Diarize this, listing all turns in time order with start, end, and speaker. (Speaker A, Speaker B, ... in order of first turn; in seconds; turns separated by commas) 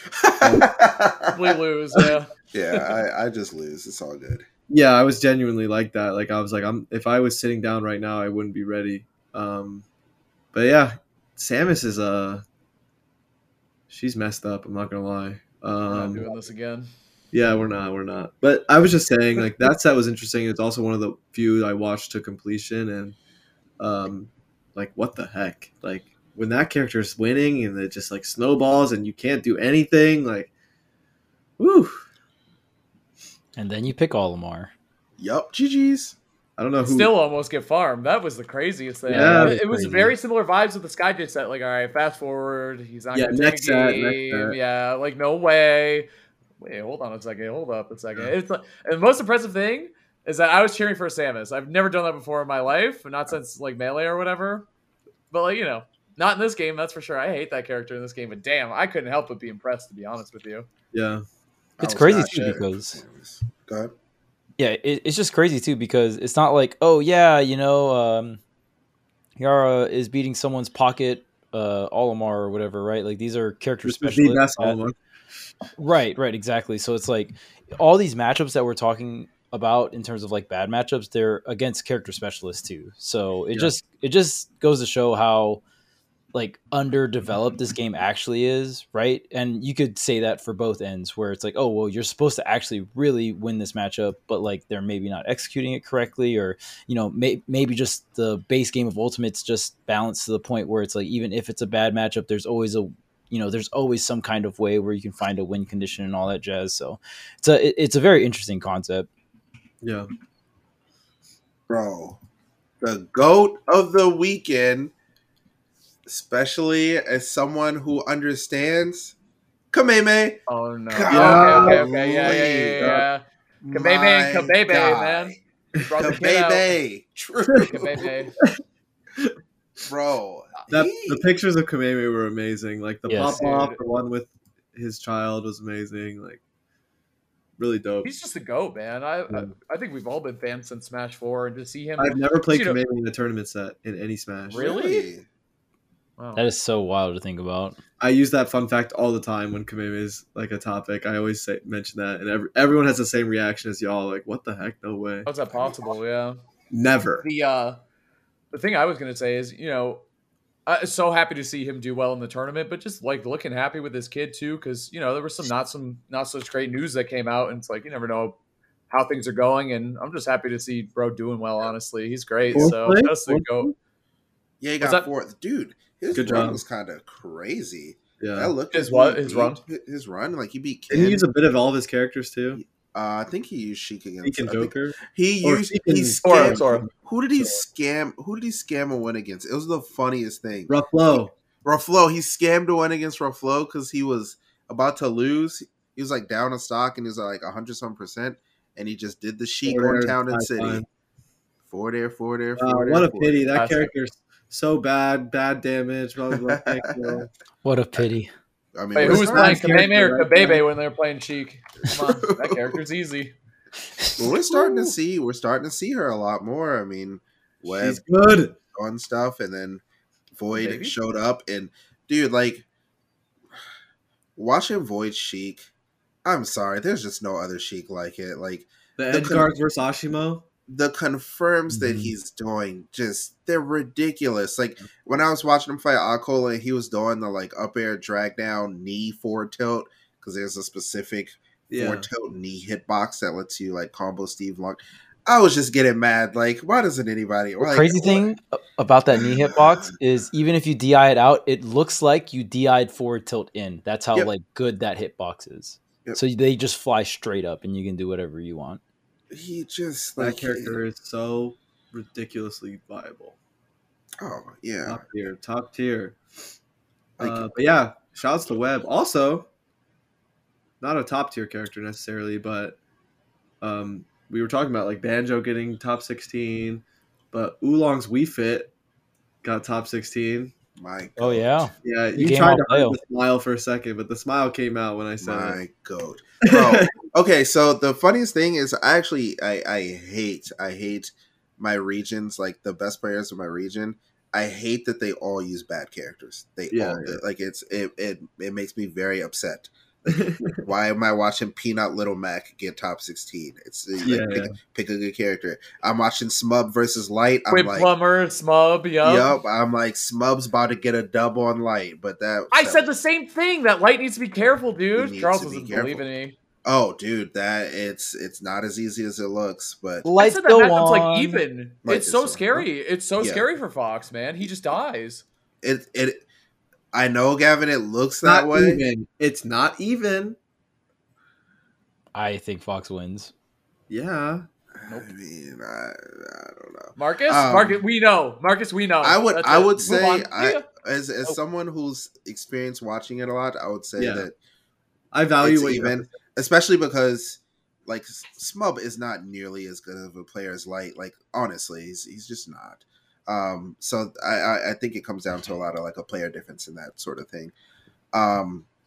Speaker A: 0.2-4.4, Speaker B: 0.4-0.7, Speaker C: 1.3-2.3, Speaker B: 4.7-9.8, Speaker B: 10.5-12.4, Speaker B: 13.9-16.3, Speaker C: 15.9-16.9, Speaker B: 17.3-23.2, Speaker B: 23.8-30.5, Speaker B: 31.6-32.0, Speaker D: 33.5-34.7, Speaker A: 35.2-36.1, Speaker B: 36.6-37.1, Speaker C: 36.8-46.1, Speaker B: 39.1-39.6, Speaker D: 39.1-40.1, Speaker B: 43.1-44.5, Speaker C: 46.6-54.7, Speaker C: 55.3-60.7, Speaker B: 60.9-61.2, Speaker D: 61.8-63.0, Speaker A: 61.8-63.9, Speaker D: 64.6-68.4, Speaker D: 69.4-74.8, Speaker B: 73.8-75.0, Speaker D: 75.8-85.6, Speaker D: 86.3-109.1, Speaker B: 109.8-110.1, Speaker A: 111.7-112.2, Speaker A: 112.8-114.9, Speaker A: 116.1-119.1, Speaker A: 119.7-120.4, Speaker C: 120.5-126.7, Speaker A: 120.9-123.0, Speaker B: 121.1-123.0, Speaker A: 123.6-125.4, Speaker B: 125.8-126.1, Speaker A: 126.0-128.2, Speaker C: 127.7-128.3, Speaker A: 129.9-131.2, Speaker B: 130.7-136.4, Speaker D: 133.1-133.4, Speaker C: 133.3-133.8, Speaker B: 137.6-138.1, Speaker C: 138.0-142.8, Speaker B: 142.0-144.9, Speaker C: 144.5-145.1, Speaker A: 144.5-145.2, Speaker C: 146.2-146.5, Speaker D: 146.3-147.8, Speaker B: 148.0-155.3, Speaker C: 155.2-156.4, Speaker B: 156.7-157.2, Speaker C: 157.2-157.8, Speaker C: 158.5-160.0, Speaker C: 160.7-168.4, Speaker C: 168.9-173.7, Speaker B: 172.5-173.7, Speaker A: 174.6-181.2, Speaker C: 174.8-175.1, Speaker B: 176.1-176.6, Speaker B: 178.2-178.5, Speaker C: 178.7-179.6, Speaker B: 180.9-182.6, Speaker A: 182.6-200.8, Speaker B: 184.2-186.9, Speaker C: 186.2-186.9, Speaker B: 190.7-191.3, Speaker B: 199.6-200.8, Speaker A: 201.7-203.5, Speaker B: 202.6-207.3, Speaker C: 203.5-203.9, Speaker A: 206.3-207.2, Speaker D: 207.6-208.3, Speaker A: 208.7-209.7, Speaker C: 208.9-213.3, Speaker B: 209.0-210.6, Speaker A: 211.9-212.8, Speaker A: 214.2-218.0, Speaker B: 217.6-218.6, Speaker A: 218.7-219.8, Speaker A: 220.3-222.7, Speaker C: 220.5-220.9, Speaker A: 224.3-225.7, Speaker A: 226.2-229.5, Speaker B: 229.0-230.4, Speaker A: 230.7-248.3, Speaker D: 231.7-232.1, Speaker B: 241.7-242.1, Speaker D: 247.6-258.8, Speaker A: 249.1-249.9, Speaker A: 259.3-260.8, Speaker B: 260.2-263.4, Speaker A: 264.2-265.0, Speaker B: 264.8-266.2, Speaker A: 267.2-267.4, Speaker B: 267.2-269.5, Speaker B: 270.8-272.8, Speaker B: 273.6-278.7, Speaker B: 279.4-280.5, Speaker A: 280.8-281.5, Speaker D: 281.2-283.0, Speaker B: 281.8-285.6, Speaker A: 285.2-307.9, Speaker B: 286.4-286.9, Speaker B: 296.7-297.2, Speaker B: 300.1-300.6, Speaker B: 304.0-304.5, Speaker C: 307.5-309.4, Speaker A: 309.0-312.8, Speaker C: 312.5-316.3, Speaker A: 314.9-316.0, Speaker A: 316.6-320.1, Speaker D: 320.0-321.4, Speaker C: 320.2-325.2, Speaker A: 321.8-322.7, Speaker A: 323.2-323.5, Speaker A: 325.6-326.2, Speaker A: 326.9-328.8, Speaker B: 328.2-330.4, Speaker D: 332.1-333.3, Speaker B: 333.9-334.4, Speaker A: 334.8-337.8, Speaker C: 336.9-340.6, Speaker A: 339.0-344.3, Speaker B: 344.0-344.3, Speaker B: 345.1-346.1, Speaker A: 345.4-357.5, Speaker A: 358.1-358.7